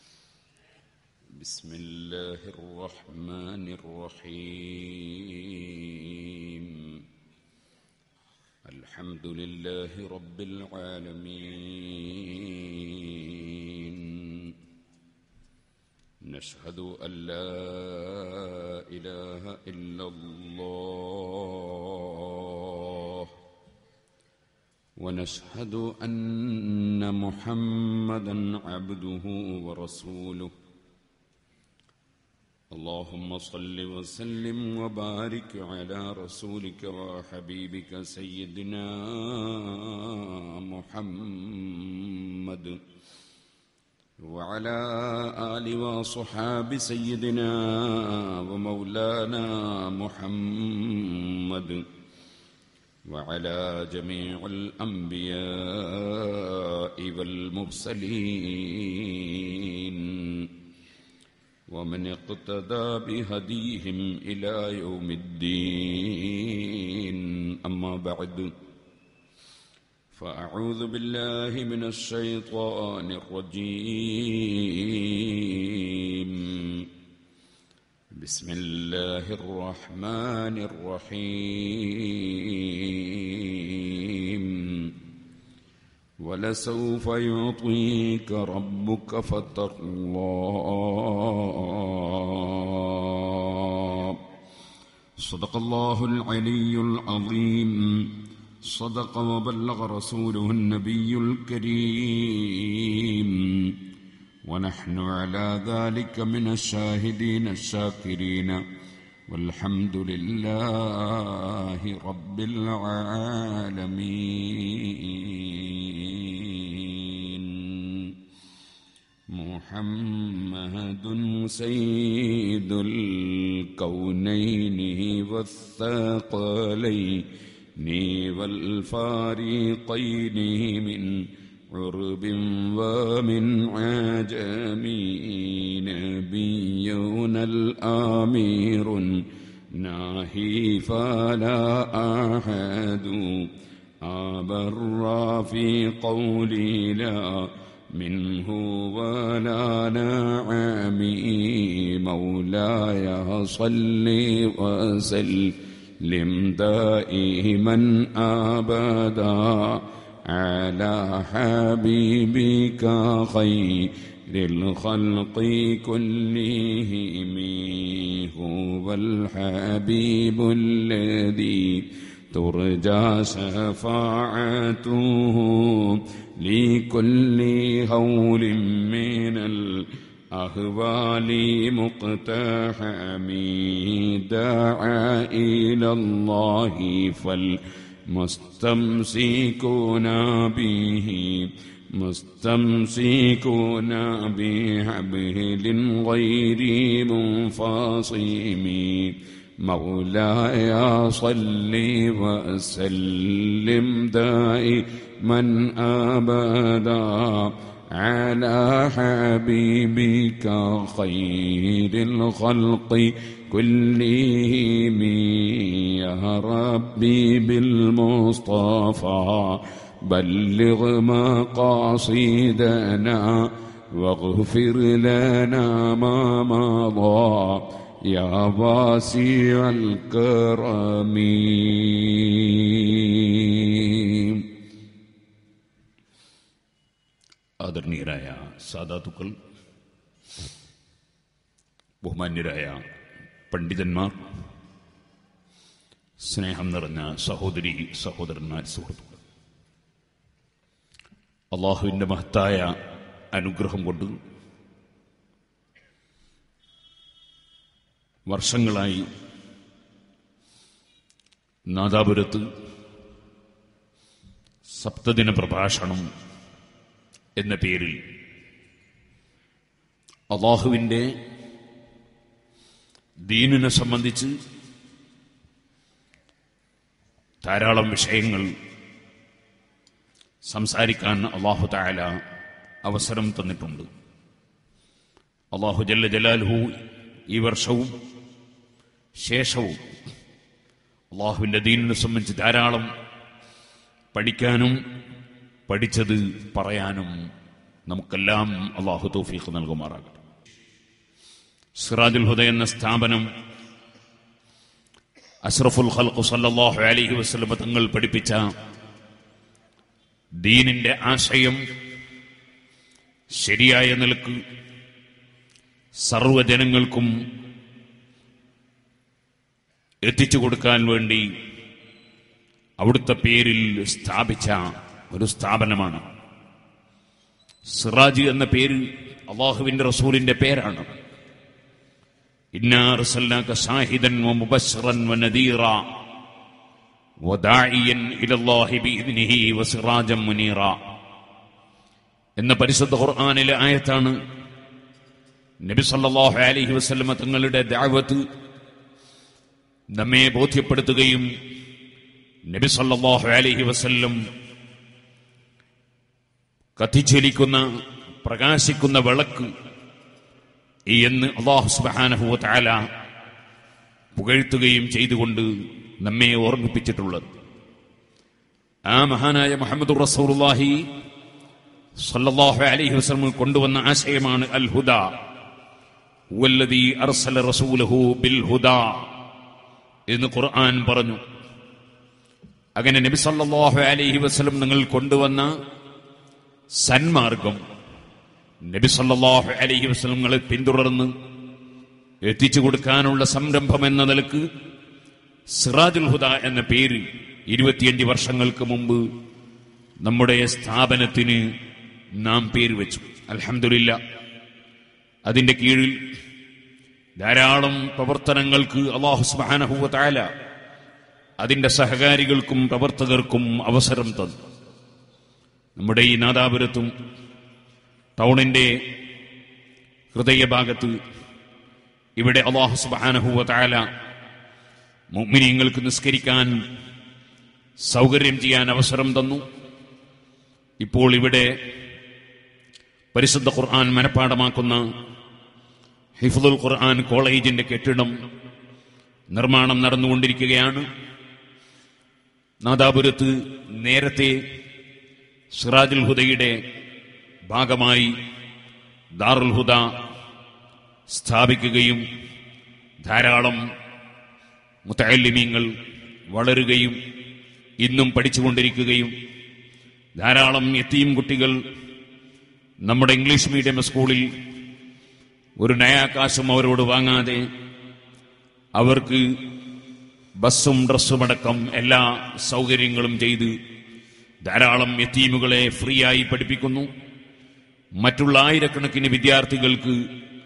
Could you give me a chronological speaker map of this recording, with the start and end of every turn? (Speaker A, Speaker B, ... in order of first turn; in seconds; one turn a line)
Speaker A: 1.4-7.0
Speaker A: 8.7-14.5
Speaker A: 16.2-23.3
Speaker A: 25.0-30.5
Speaker A: 32.7-42.8
Speaker A: 44.2-51.8
Speaker A: 53.1-60.5
Speaker A: 61.7-68.5
Speaker A: 70.1-76.8
Speaker A: 78.2-84.9
Speaker A: 86.2-94.2
Speaker A: 95.2-103.8
Speaker A: 104.5-108.6
Speaker A: 109.3-118.1
Speaker A: 119.3-127.2
Speaker A: 127.8-139.2
Speaker A: 139.8-143.5
Speaker A: 144.0-234.4
Speaker A: 237.6-239.3
Speaker A: 242.0-242.8
Speaker A: 243.5-244.2
Speaker A: 246.2-249.2
Speaker A: 251.5-252.7
Speaker A: 253.3-254.1
Speaker A: 258.3-259.1
Speaker A: 261.7-262.4
Speaker A: 264.8-266.1
Speaker A: 267.4-268.0
Speaker A: 270.3-271.1
Speaker A: 273.3-274.3
Speaker A: 277.4-278.5
Speaker A: 280.5-282.1
Speaker A: 282.8-283.9
Speaker A: 285.5-286.7
Speaker A: 287.3-287.9
Speaker A: 289.2-289.8
Speaker A: 291.1-292.9
Speaker A: 294.1-294.8
Speaker A: 295.7-297.1
Speaker A: 297.9-300.2
Speaker A: 301.8-303.2
Speaker A: 305.4-308.4
Speaker A: 310.4-311.6
Speaker A: 313.4-314.4
Speaker A: 316.1-317.1
Speaker A: 320.1-321.2
Speaker A: 322.8-326.0
Speaker A: 327.8-328.8
Speaker A: 329.3-330.9
Speaker A: 332.6-335.8
Speaker A: 337.2-340.8
Speaker A: 342.4-344.1
Speaker A: 345.6-348.2
Speaker A: 349.9-351.2
Speaker A: 352.5-354.2
Speaker A: 356.8-357.6
Speaker A: 358.2-359.5
Speaker A: 360.9-362.8
Speaker A: 364.1-365.5
Speaker A: 366.0-367.2
Speaker A: 368.9-370.8
Speaker A: 372.1-375.0
Speaker A: 376.4-379.0
Speaker A: 380.1-381.2
Speaker A: 382.8-385.5
Speaker A: 386.8-387.6
Speaker A: 388.7-391.1
Speaker A: 392.2-394.4
Speaker A: 395.6-399.0
Speaker A: 400.0-401.4
Speaker A: 402.2-404.0
Speaker A: 405.3-405.9
Speaker A: 407.2-410.2
Speaker A: 411.4-414.4
Speaker A: 415.8-416.9
Speaker A: 418.2-418.7
Speaker A: 420.1-420.9
Speaker A: 422.2-423.8
Speaker A: 425.1-426.5
Speaker A: 427.9-429.4
Speaker A: 430.8-431.5
Speaker A: 433.1-434.8
Speaker A: 436.2-438.1
Speaker A: 439.3-440.8
Speaker A: 442.6-444.4
Speaker A: 445.5-446.5
Speaker A: 447.5-448.1
Speaker A: 449.2-449.8
Speaker A: 451.1-452.0
Speaker A: 453.0-453.6
Speaker A: 454.9-455.7
Speaker A: 456.3-457.0
Speaker A: 457.8-459.1
Speaker A: 460.2-461.6
Speaker A: 462.9-464.2
Speaker A: 465.6-467.4
Speaker A: 468.8-469.2
Speaker A: 470.4-473.5
Speaker A: 474.4-476.9
Speaker A: 478.0-480.0